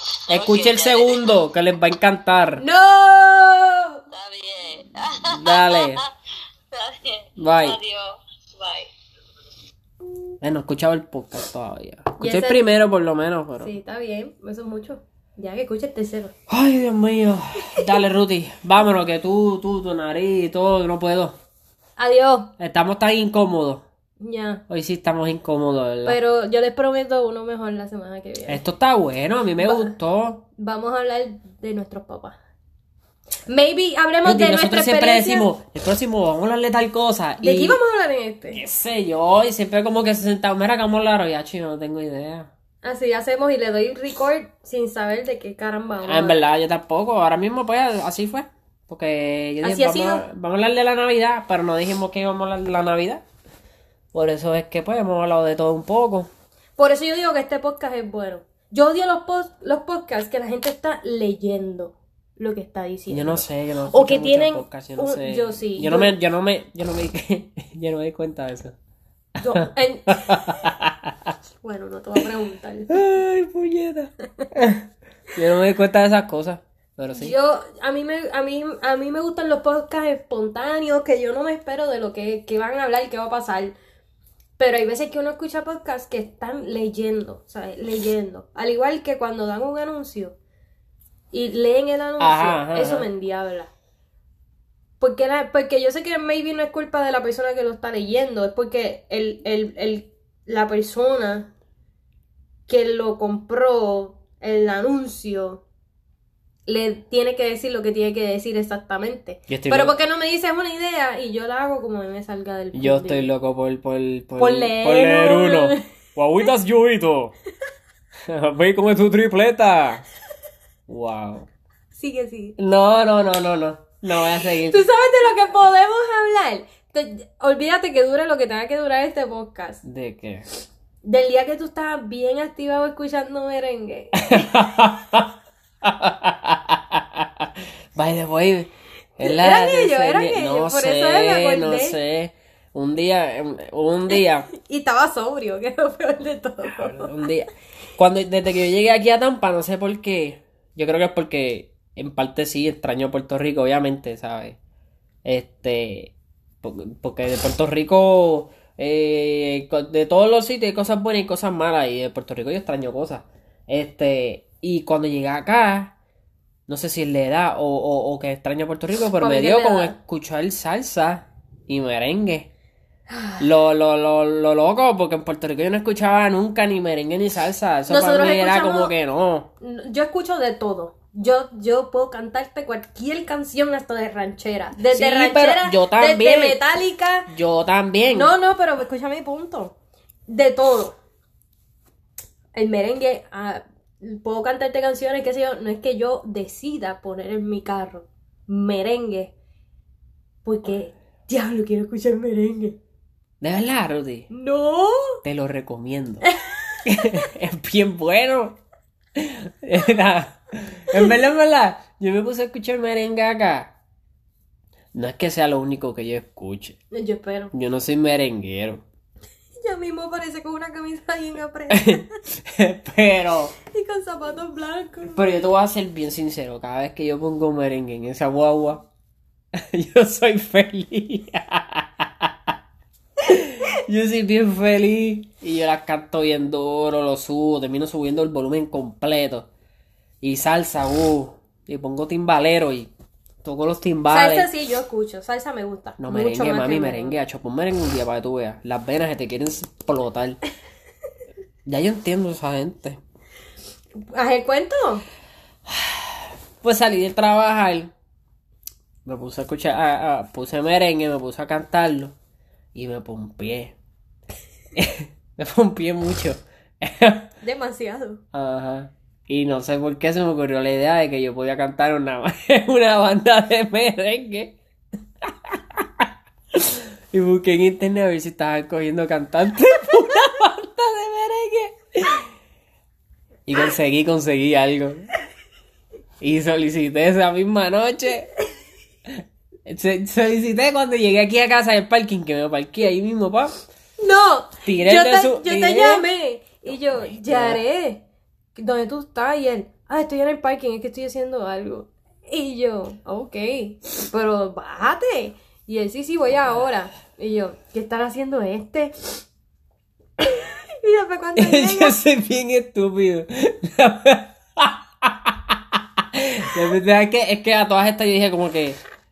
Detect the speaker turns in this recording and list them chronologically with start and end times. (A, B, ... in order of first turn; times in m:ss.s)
0:00.3-0:01.3 A
0:00.3-0:02.6 B
0:02.6-0:04.0 C
0:04.1-0:06.1 A
0:05.2-0:06.0 B
0:06.7-0:08.9 A
0:07.4-0:07.8 B
0:10.4-0:13.7 B
0:12.2-0:12.6 C
0:13.6-0:16.3 C
0:16.5-0:21.4 B
0:22.0-0:22.5 C
0:22.6-0:23.8 B
0:24.2-0:24.6 C
0:24.7-0:26.2 B
0:26.0-0:28.6 C
0:28.5-0:30.4 B
0:29.6-0:29.9 C
0:30.6-0:32.4 C
0:33.5-0:35.5 C
0:34.2-0:37.8 B
0:37.4-0:38.6 C
0:38.5-0:42.5 B
0:42.8-0:46.4 C
0:46.0-0:53.2 B
0:49.6-0:50.2 C
0:54.1-0:56.3 B
0:56.8-1:06.1 C
1:03.1-1:08.8 B
1:09.4-1:10.7 C
1:09.5-1:11.3 B
1:11.6-1:13.0 C
1:12.9-1:17.3 B
1:17.1-1:23.8 C
1:24.6-1:30.3 C
1:31.3-1:33.7 C
1:32.2-1:33.1 B
1:35.0-1:41.5 C
1:42.7-1:45.6 C
1:46.6-1:53.3 C
1:49.5-1:50.0 B
1:52.7-1:57.3 B
1:54.4-1:55.8 C
1:58.2-2:00.1 B
2:00.9-2:01.5 B
2:01.9-2:02.6 C
2:02.6-2:04.8 B
2:04.5-2:09.8 C
2:09.8-2:10.4 B
2:11.0-2:14.7 C
2:14.1-2:24.5 B
2:19.2-2:22.0 C
2:24.1-2:27.2 C
2:26.6-2:34.6 B
2:35.2-2:45.9 B
2:46.7-2:52.5 B
2:49.2-2:50.0 C
2:53.1-2:53.4 C
2:53.4-2:59.5 B
2:57.9-2:58.9 C
2:59.6-3:07.3 C
3:04.8-3:06.6 B
3:07.3-3:08.3 B
3:08.1-3:09.7 C
3:10.3-3:11.0 C
3:12.5-3:19.3 C
3:20.4-3:22.8 C
3:23.4-3:24.3 B
3:24.3-3:25.2 C
3:25.2-3:26.3 B
3:26.8-3:28.6 B
3:29.1-3:33.7 B
3:34.9-3:36.8 B
3:36.9-3:37.5 C
3:37.5-3:38.8 B
3:39.6-3:42.1 C
3:41.7-3:43.5 B
3:43.6-3:45.2 C
3:45.1-3:48.9 B
3:49.5-3:52.5 B
3:53.2-3:59.5 B
4:00.2-4:02.9 B
4:03.4-4:04.5 B
4:04.1-4:07.1 C
4:06.0-4:10.4 B
4:11.6-4:13.0 B
4:14.0-4:15.0 C
4:15.7-4:17.9 B
4:19.0-4:22.1 B
4:22.7-4:23.7 B
4:24.7-4:27.3 B
4:27.4-4:28.2 C
4:28.3-4:34.6 B
4:35.2-4:42.3 B
4:43.5-4:45.1 B
4:46.2-4:48.3 B
4:49.6-4:53.5 B
4:54.0-4:58.0 C
4:54.6-4:56.1 B
4:57.1-4:57.6 B
4:58.5-5:09.2 C
5:10.2-5:12.0 C
5:11.4-5:18.8 B